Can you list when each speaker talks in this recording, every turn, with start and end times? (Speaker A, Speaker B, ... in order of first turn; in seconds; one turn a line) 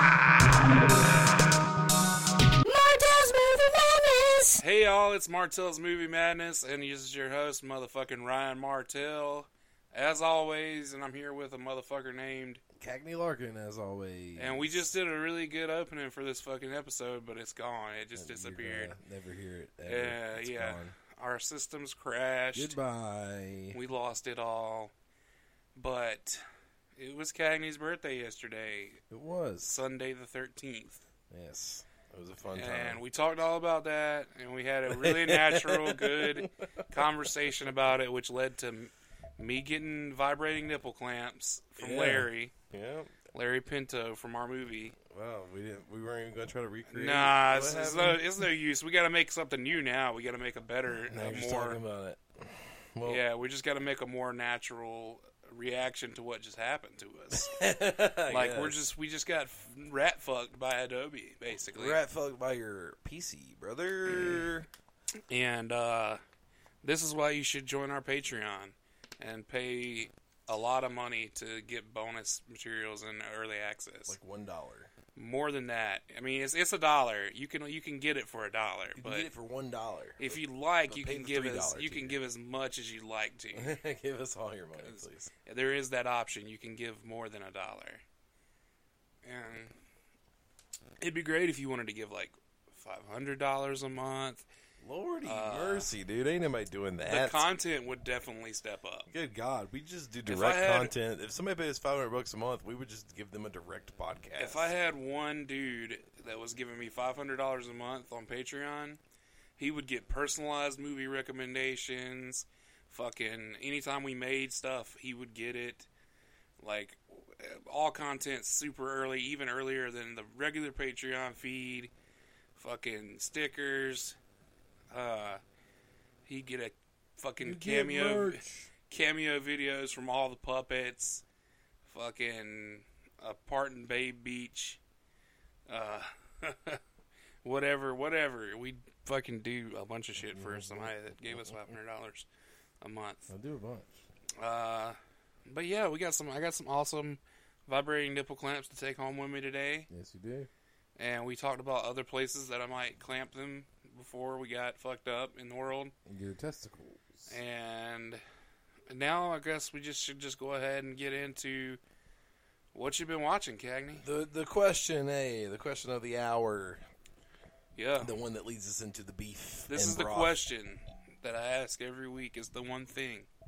Speaker A: 2.6-4.6
Speaker B: 4.6-12.6
Speaker C: 12.8-14.9
Speaker B: 14.3-18.9
Speaker C: 18.1-20.9
Speaker B: 19.9-22.8
Speaker C: 22.5-23.8
Speaker B: 23.7-24.9
Speaker B: 25.7-26.4
Speaker B: 27.0-29.0
Speaker C: 29.1-29.8
Speaker B: 29.6-31.0
Speaker C: 31.3-33.0
Speaker B: 32.5-42.5
Speaker C: 34.9-37.1
Speaker C: 41.8-43.2
Speaker B: 43.3-45.0
Speaker C: 45.0-48.4
Speaker B: 46.9-51.8
Speaker C: 51.0-53.2
Speaker B: 53.0-57.6
Speaker C: 57.3-58.8
Speaker B: 58.2-62.0
Speaker C: 61.7-64.7
Speaker B: 64.1-64.4
Speaker B: 65.3-66.2
Speaker B: 66.8-74.2
Speaker C: 74.1-74.9
Speaker B: 75.1-79.3
Speaker C: 78.9-82.2
Speaker B: 80.2-83.8
Speaker C: 83.5-85.3
Speaker B: 84.8-88.0
Speaker B: 89.2-89.7
Speaker B: 91.0-94.5
Speaker C: 94.8-97.5
Speaker B: 95.2-95.9
Speaker B: 97.0-99.1
Speaker C: 99.1-104.7
Speaker B: 100.3-100.9
Speaker B: 104.3-109.0
Speaker B: 109.6-115.9
Speaker B: 116.6-121.9
Speaker B: 122.5-124.2
Speaker B: 124.9-125.4
Speaker B: 126.2-131.2
Speaker C: 127.4-128.7
Speaker B: 131.8-134.8
Speaker B: 135.7-136.8
Speaker B: 137.4-142.2
Speaker C: 140.2-141.7
Speaker B: 142.8-143.3
Speaker C: 143.3-144.0
Speaker B: 144.4-149.9
Speaker C: 149.9-150.5
Speaker B: 151.0-155.9
Speaker C: 156.1-157.3
Speaker B: 157.3-158.2
Speaker B: 158.9-161.8
Speaker B: 162.7-164.0
Speaker C: 164.0-166.8
Speaker B: 167.8-168.1
Speaker C: 168.0-170.4
Speaker B: 169.7-173.3